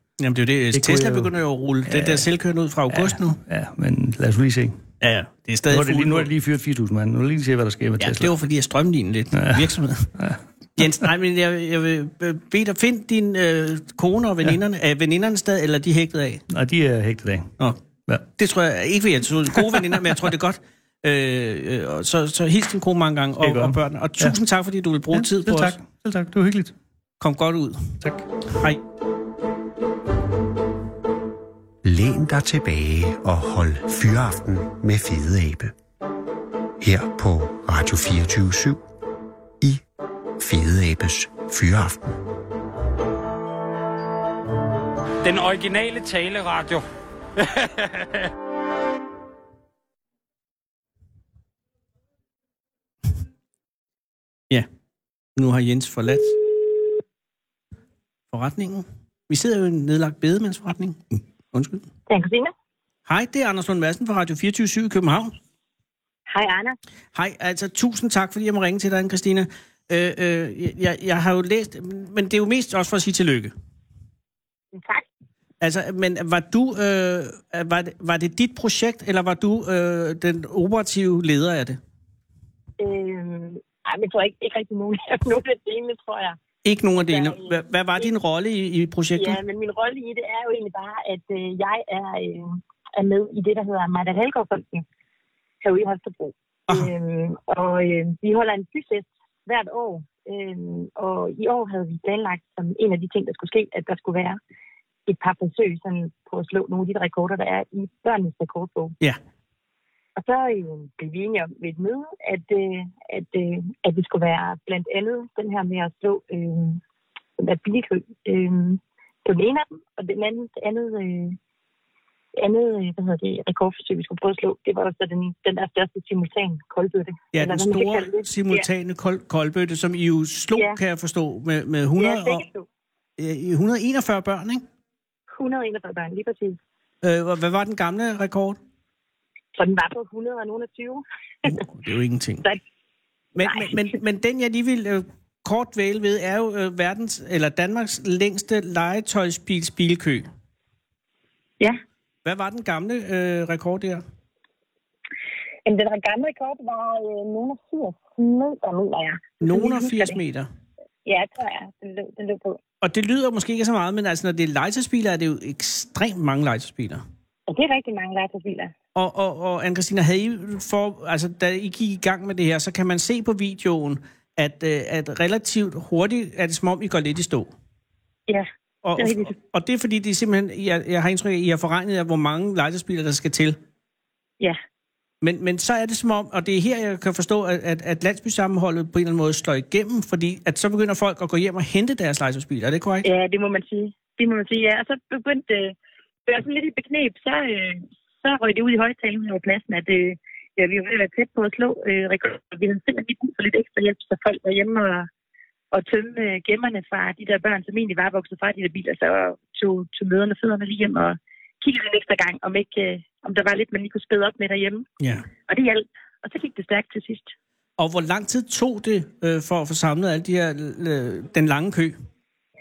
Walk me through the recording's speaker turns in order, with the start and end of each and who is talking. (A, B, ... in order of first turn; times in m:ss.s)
0:00.2-0:03.4 A
0:00.7-0:01.3 B
0:01.8-0:02.3 B
0:02.9-0:04.8 B
0:05.0-0:06.3 A
0:05.7-0:08.3 B
0:08.0-0:10.1 A
0:09.3-0:10.9 B
0:10.8-0:16.4 A
0:16.5-0:17.5 B
0:18.4-0:25.8 A
0:23.4-0:24.4 B
0:25.1-0:26.7 B
0:27.2-0:28.0 A
0:28.0-0:28.2 B
0:28.5-0:28.8 A
0:31.8-0:35.7 C
0:36.8-0:38.8 C
0:40.4-0:42.2 C
0:45.2-0:46.8 D
0:47.4-0:48.2 D
0:55.4-0:56.4 A
0:58.3-1:01.8 A
1:02.1-1:02.5 E
1:03.0-1:05.3 A
1:06.3-1:06.8 E
1:07.1-1:13.5 A
1:14.7-1:15.0 E
1:15.6-1:21.8 A
1:22.8-1:26.4 E
1:26.6-1:29.4 A
1:27.1-1:28.1 E
1:29.2-1:34.8 E
1:35.6-1:44.4 E
1:45.1-1:48.9 E
1:50.2-1:56.8 E
1:57.4-2:01.4 E
2:02.4-2:08.6 E
2:07.3-2:12.4 A
2:12.0-2:12.7 E
2:13.2-2:14.6 A
2:15.3-2:16.6 E
2:17.0-2:18.6 A
2:19.5-2:21.5 E
2:21.4-2:22.5 A
2:23.3-2:30.3 A
2:23.4-2:23.9 E
2:32.2-2:34.0 A
2:35.6-2:40.2 E
2:39.4-2:40.5 A
2:41.0-2:42.6 E
2:42.8-2:47.0 A
2:47.5-2:48.7 E
2:48.9-2:57.5 A
2:58.3-2:59.4 E
2:58.8-3:03.6 A
3:05.2-3:13.1 A
3:13.0-3:15.7 E
3:16.2-3:25.1 E
3:25.7-3:34.8 E
3:35.0-3:35.3 A
3:35.5-3:37.3 E
3:37.8-3:42.0 A